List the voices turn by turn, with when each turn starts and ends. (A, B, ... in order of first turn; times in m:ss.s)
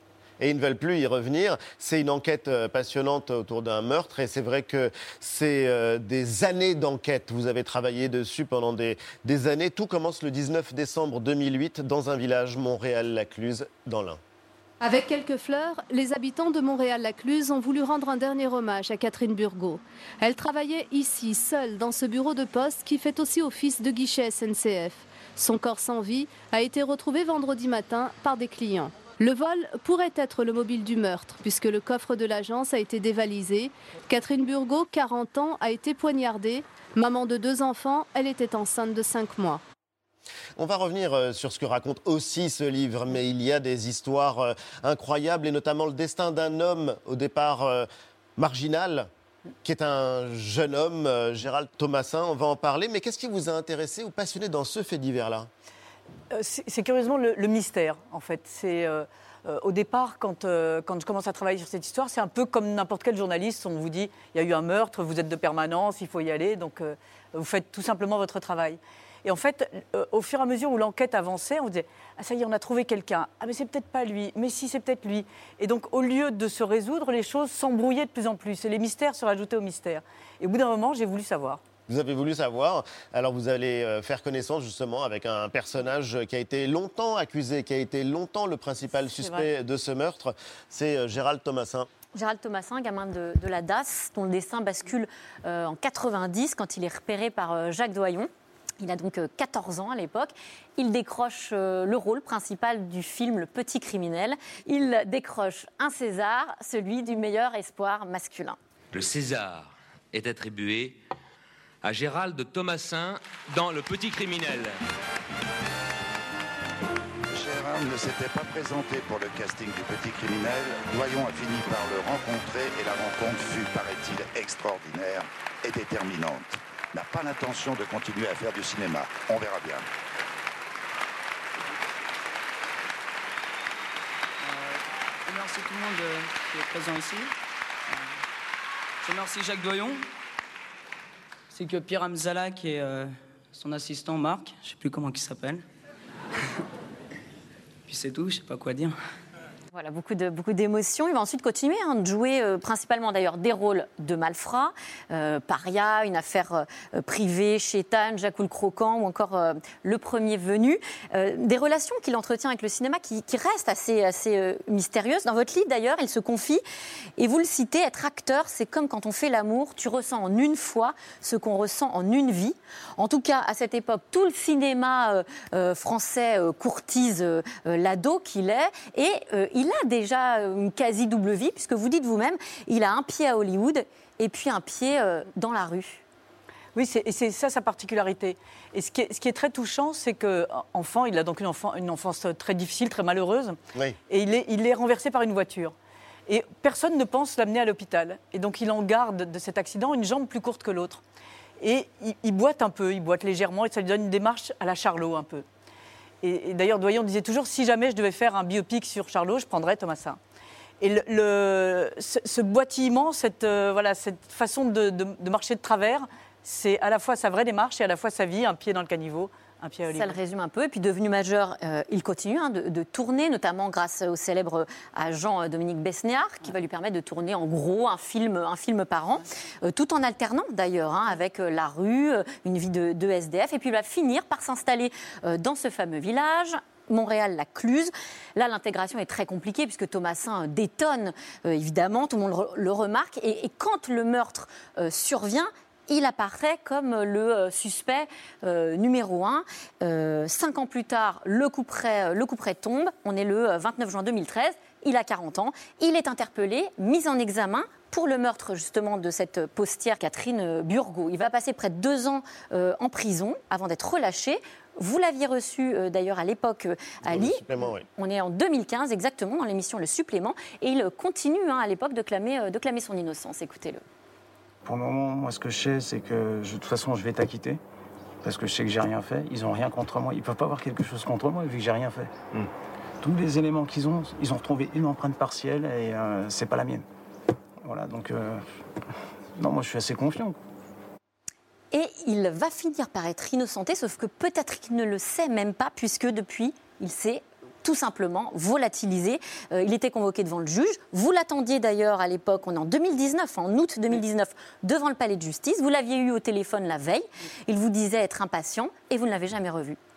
0:00.4-0:14.2 A
0:14.8-0:39.6 B
0:40.6-0:49.1 A
0:49.6-0:55.5 A
0:56.3-1:21.6 C
1:21.9-1:31.9 A
1:29.1-1:29.5 C
1:32.1-1:38.3 D
1:38.8-1:48.6 D
1:48.9-1:51.0 E
1:51.8-1:54.8 E
1:57.3-2:09.9 F
2:14.4-2:17.3 G
2:17.9-2:18.1 G
2:19.0-2:20.0 G
2:21.5-2:25.6 G
2:27.9-2:29.0 G
2:29.7-2:46.6 D
2:47.2-3:06.0 D
3:06.8-3:13.6 C
3:14.1-3:15.7 C
3:16.3-3:21.0 C
3:21.6-3:25.4 C
3:26.2-3:30.2 C
3:30.8-3:40.2 C
3:39.9-4:27.4 D
4:27.0-4:27.8 A
4:28.0-4:33.8 D
4:34.6-4:37.6 H
4:38.2-4:42.5 H
4:43.0-4:46.9 H
4:47.6-4:48.4 H
4:49.4-4:50.4 H
4:51.7-5:09.8 D